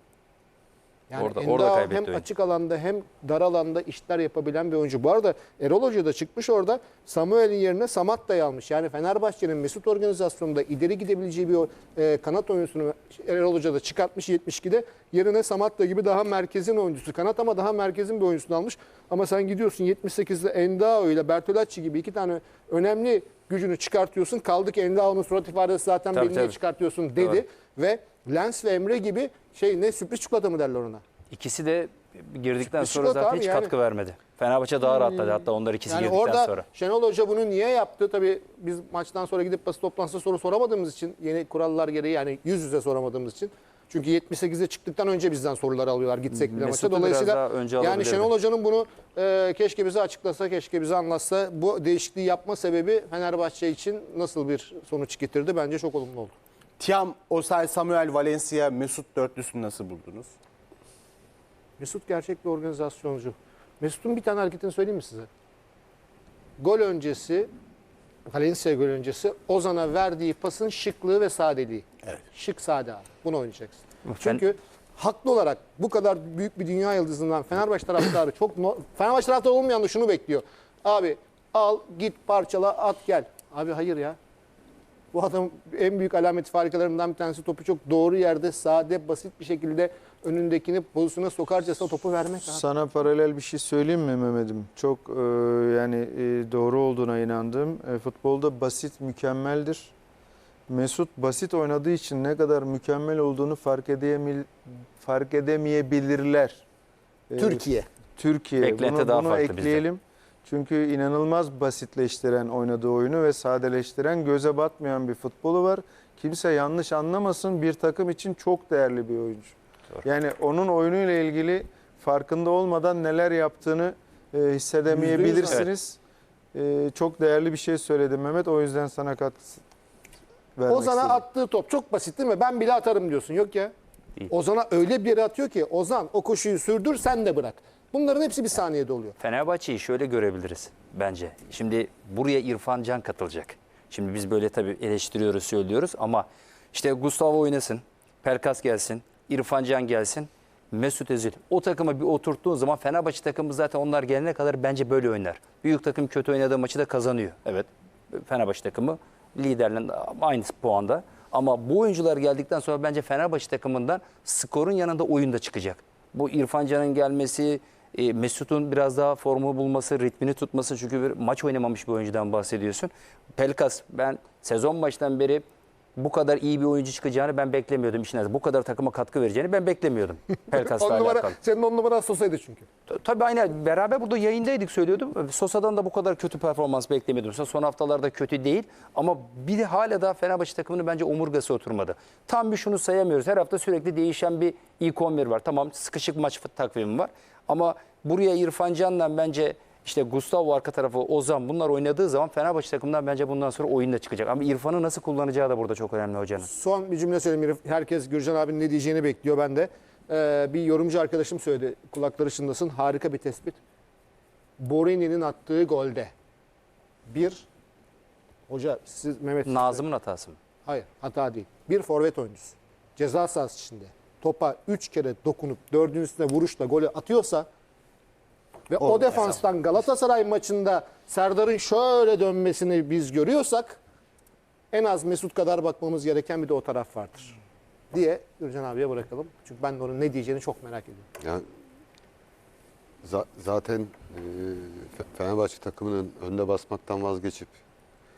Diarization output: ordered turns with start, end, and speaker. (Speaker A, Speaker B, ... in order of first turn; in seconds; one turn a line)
Speaker A: 1.1-31.0
Speaker B: 1.2-2.2
Speaker B: 26.1-26.6
Speaker B: 27.2-27.4
Speaker B: 31.3-36.6
Speaker A: 32.6-33.7
Speaker A: 35.2-56.3
Speaker B: 46.3-48.3
Speaker C: 56.8-60.3
Speaker A: 61.8-65.3
Speaker A: 66.6-67.5
Speaker A: 68.2-84.2
Speaker B: 74.1-74.4
Speaker A: 85.1-92.6
Speaker D: 92.5-99.9
Speaker D: 100.7-106.6
Speaker D: 107.3-126.0
Speaker A: 107.4-107.9
Speaker B: 108.6-109.8
Speaker C: 125.1-125.5
Speaker D: 126.5-129.6
Speaker D: 130.6-131.2
Speaker A: 130.7-133.7
Speaker A: 134.3-139.1
Speaker B: 139.2-175.4
Speaker B: 175.9-181.4
Speaker A: 180.4-182.7
Speaker B: 182.9-206.5
Speaker A: 206.5-213.6
Speaker A: 214.6-216.1
Speaker A: 217.1-217.4
Speaker A: 218.5-219.8
Speaker B: 219.4-220.4
Speaker A: 220.7-227.5
Speaker A: 228.7-233.8
Speaker C: 228.8-229.3
Speaker A: 234.7-237.4
Speaker A: 237.9-241.1
Speaker E: 241.2-241.5
Speaker E: 243.0-247.6